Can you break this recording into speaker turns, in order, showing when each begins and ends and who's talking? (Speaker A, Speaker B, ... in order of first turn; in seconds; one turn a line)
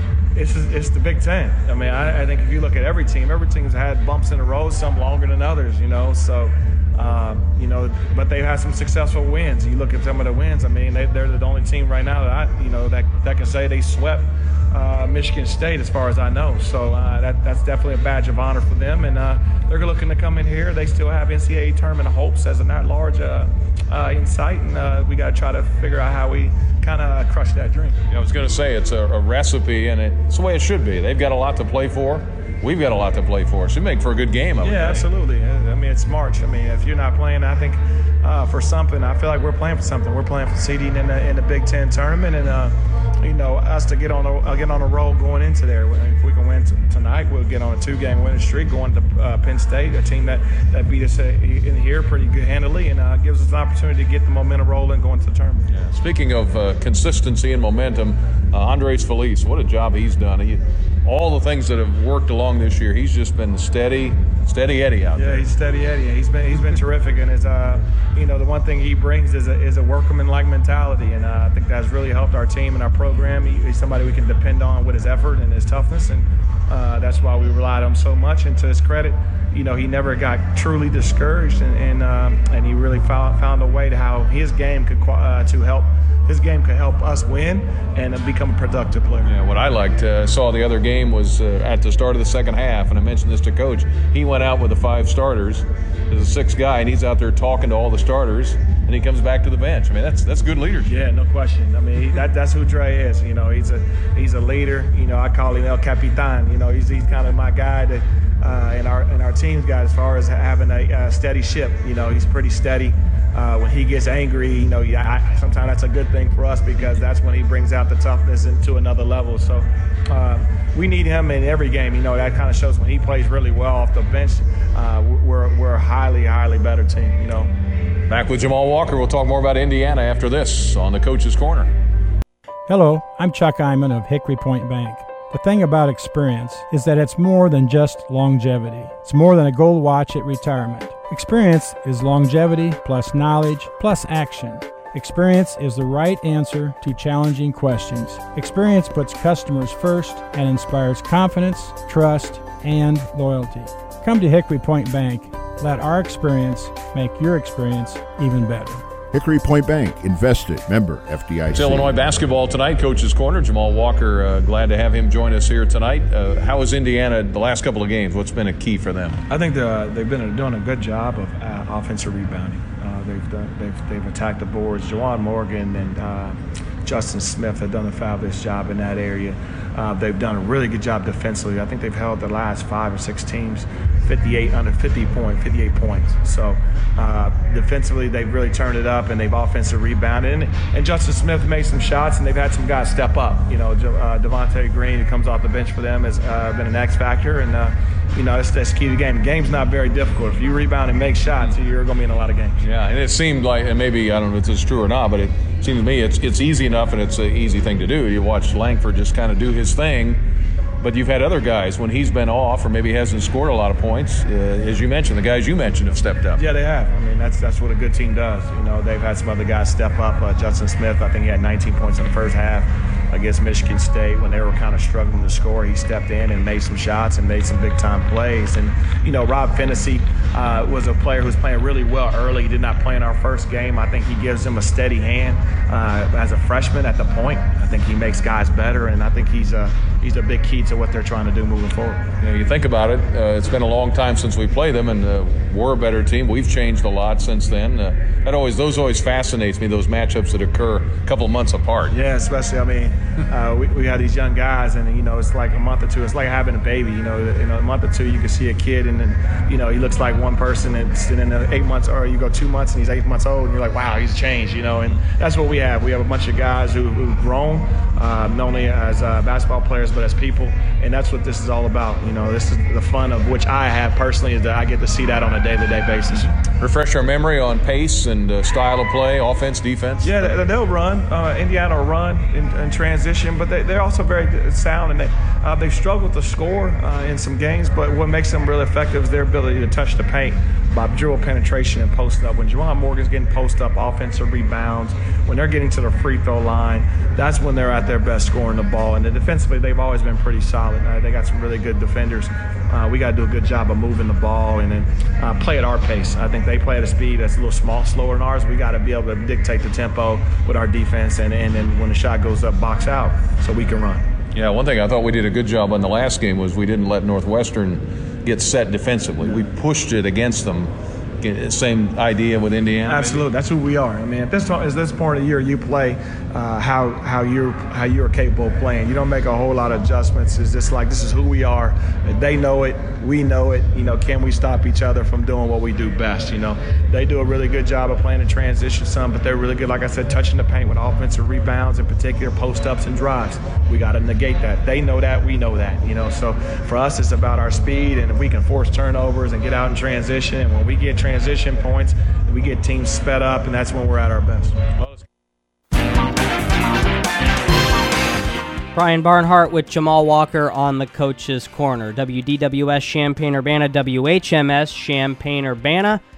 Speaker A: 0.3-28.0
Speaker B: 28.1-35.1
Speaker A: 34.6-55.7
Speaker B: 55.7-65.5
Speaker A: 65.2-89.3
Speaker B: 89.3-101.0
Speaker A: 100.8-127.5
Speaker B: 128.1-131.7
Speaker C: 132.7-158.8
Speaker D: 159.1-162.1
Speaker B: 161.5-169.2
Speaker A: 169.3-202.6
Speaker B: 202.6-210.2
Speaker B: 210.8-216.4
Speaker A: 216.4-242.1
Speaker B: 242.2-252.0
Speaker A: 251.9-276.4
Speaker B: 276.6-280.5
Speaker A: 280.0-314.1
Speaker B: 314.3-323.3
Speaker A: 322.9-354.6
Speaker E: 358.8-366.0